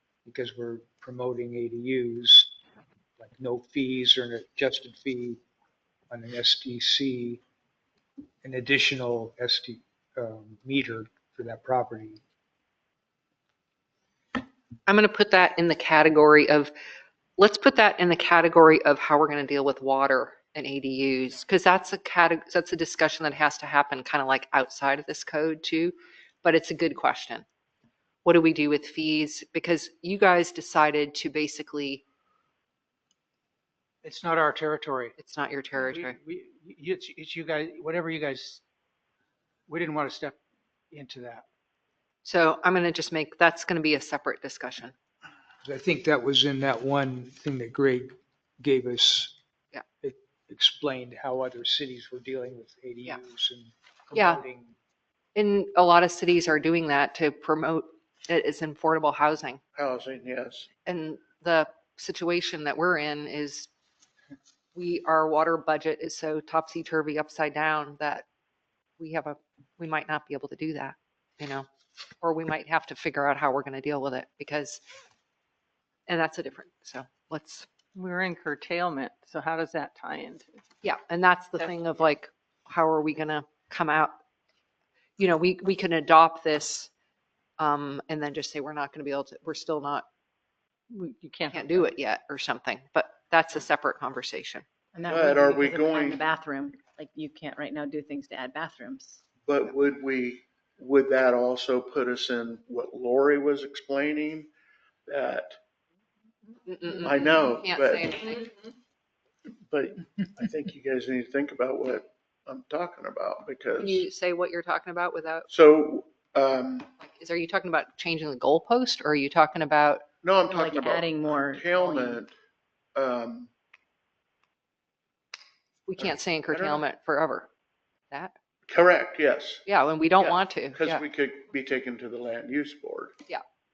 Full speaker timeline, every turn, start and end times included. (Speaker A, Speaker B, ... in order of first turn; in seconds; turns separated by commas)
Speaker A: 0.2-2.5, Speaker A: 3.2-5.4, Speaker A: 6.1-7.4, Speaker A: 8.4-12.2, Speaker B: 14.9-16.7, Speaker B: 17.4-27.4, Speaker B: 28.2-32.0, Speaker C: 34.0-35.1, Speaker B: 35.2-36.1, Speaker C: 35.8-38.6, Speaker C: 39.7-40.4, Speaker C: 40.9-41.5, Speaker B: 42.2-44.9, Speaker A: 45.6-49.4, Speaker A: 50.0-54.7, Speaker B: 54.1-54.4, Speaker B: 55.3-59.6, Speaker D: 59.7-60.7, Speaker B: 60.9-63.7, Speaker B: 64.7-68.2, Speaker B: 69.0-71.7, Speaker B: 72.2-74.8, Speaker B: 76.1-77.7, Speaker E: 77.9-80.5, Speaker B: 80.8-84.2, Speaker B: 85.2-86.9, Speaker B: 87.6-90.0, Speaker E: 90.9-91.9, Speaker B: 91.5-94.6, Speaker F: 94.9-99.2, Speaker D: 95.1-96.2, Speaker D: 99.4-104.5, Speaker D: 105.1-105.6, Speaker B: 106.7-108.5, Speaker D: 107.0-108.3, Speaker D: 109.7-114.0, Speaker B: 113.8-115.5, Speaker D: 115.5-116.9, Speaker B: 117.0-120.0, Speaker D: 120.2-122.3, Speaker F: 120.4-122.2, Speaker D: 122.9-123.5, Speaker B: 125.9-127.5, Speaker D: 126.0-126.8, Speaker D: 128.7-129.6, Speaker B: 129.7-131.0, Speaker D: 130.2-133.2